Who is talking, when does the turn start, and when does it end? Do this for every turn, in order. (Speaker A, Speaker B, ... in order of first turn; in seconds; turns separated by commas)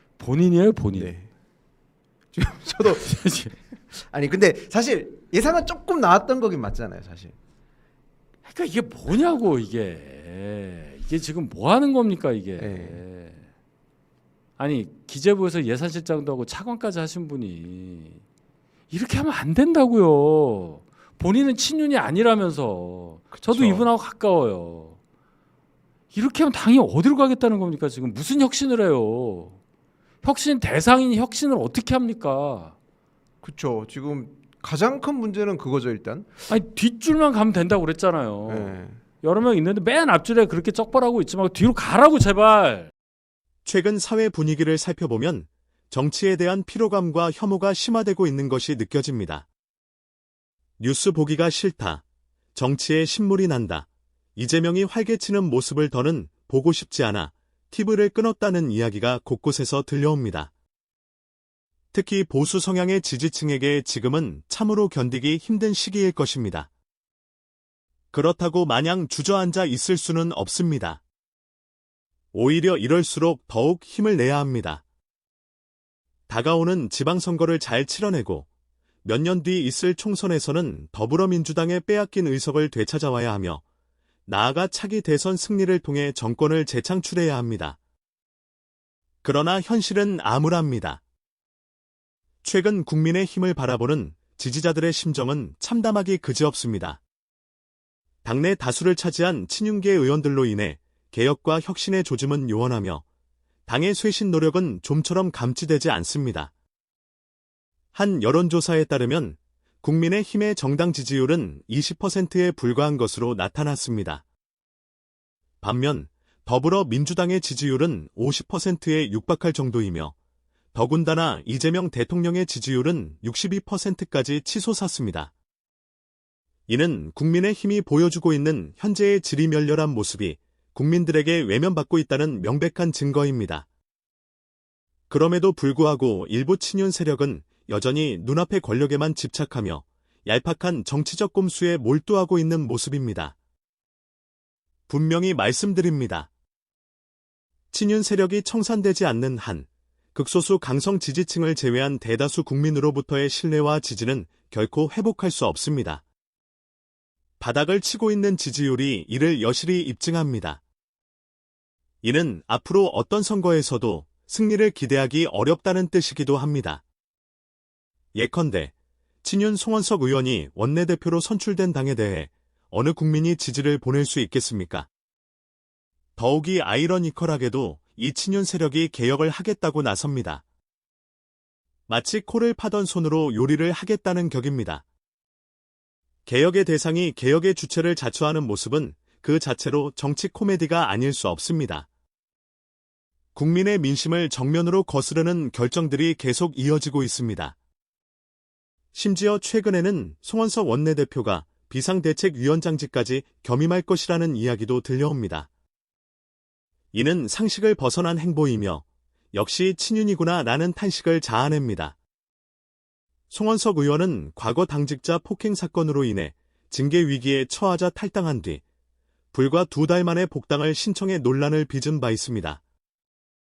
Speaker A: 0.2-1.1, Speaker B: 0.9-1.3, Speaker B: 2.3-3.2, Speaker A: 2.8-3.6, Speaker B: 3.9-7.3, Speaker A: 8.4-13.4, Speaker B: 12.6-13.0, Speaker A: 14.6-18.2, Speaker A: 18.9-24.9, Speaker B: 23.3-23.9, Speaker A: 26.1-29.5, Speaker A: 30.2-32.7, Speaker B: 33.4-36.3, Speaker A: 36.5-42.9, Speaker B: 38.5-39.0, Speaker C: 43.6-49.5, Speaker C: 50.8-52.0, Speaker C: 52.5-60.5, Speaker C: 61.9-66.7, Speaker C: 68.1-71.0, Speaker C: 72.3-74.8, Speaker C: 76.3-78.5, Speaker C: 79.0-83.6, Speaker C: 84.3-87.8, Speaker C: 89.2-91.0, Speaker C: 92.4-97.0, Speaker C: 98.2-103.0, Speaker C: 103.7-106.5, Speaker C: 107.9-114.2, Speaker C: 115.6-120.1, Speaker C: 120.7-125.3, Speaker C: 126.7-133.7, Speaker C: 135.1-143.3, Speaker C: 144.9-146.3, Speaker C: 147.7-156.0, Speaker C: 157.4-160.6, Speaker C: 162.0-166.8, Speaker C: 168.2-174.9, Speaker C: 176.2-180.4, Speaker C: 181.9-184.8, Speaker C: 186.2-191.9, Speaker C: 193.3-197.6, Speaker C: 198.9-205.5, Speaker C: 206.9-211.9, Speaker C: 213.3-218.6, Speaker C: 219.3-222.6